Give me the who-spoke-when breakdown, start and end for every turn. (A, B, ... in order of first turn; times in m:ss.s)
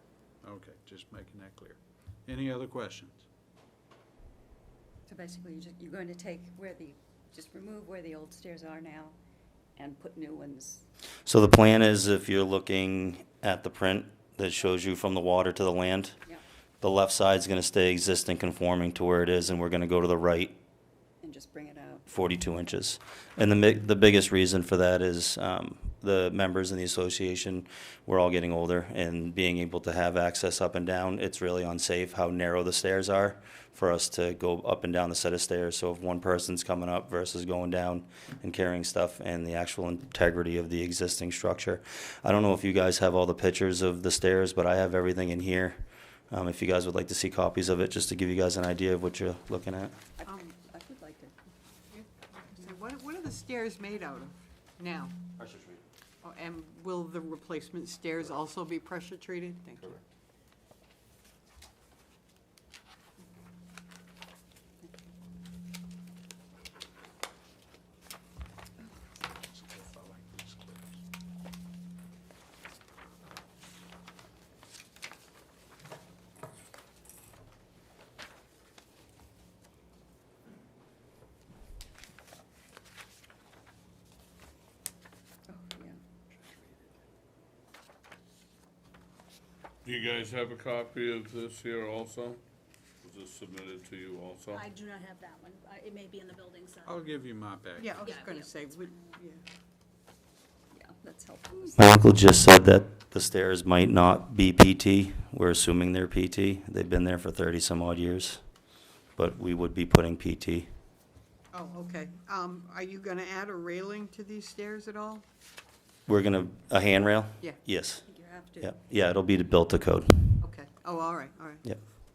0:00.4-0:03.2 A
0:05.1-0:07.7 B
0:08.3-0:09.1 B
0:09.8-0:10.8 B
0:11.3-0:16.2 C
0:16.8-0:20.6 C
0:21.2-0:22.0 B
0:22.1-0:50.0 C
0:50.3-0:51.3 B
0:52.6-0:55.2 D
0:55.4-0:55.8 C
0:56.2-1:00.0 D
1:09.3-1:11.0 A
1:25.5-1:26.0 B
1:29.8-1:32.4 E
1:33.0-1:34.6 E
1:34.5-1:37.0 F
1:36.8-1:38.0 A
1:37.8-1:39.4 D
1:38.0-1:39.0 F
1:40.7-1:41.8 B
1:41.8-1:48.4 C
1:49.2-1:50.7 C
1:51.5-1:55.2 D
1:56.1-1:58.0 C
1:58.1-1:58.6 B
1:58.6-2:00.4 C
2:00.4-2:01.6 D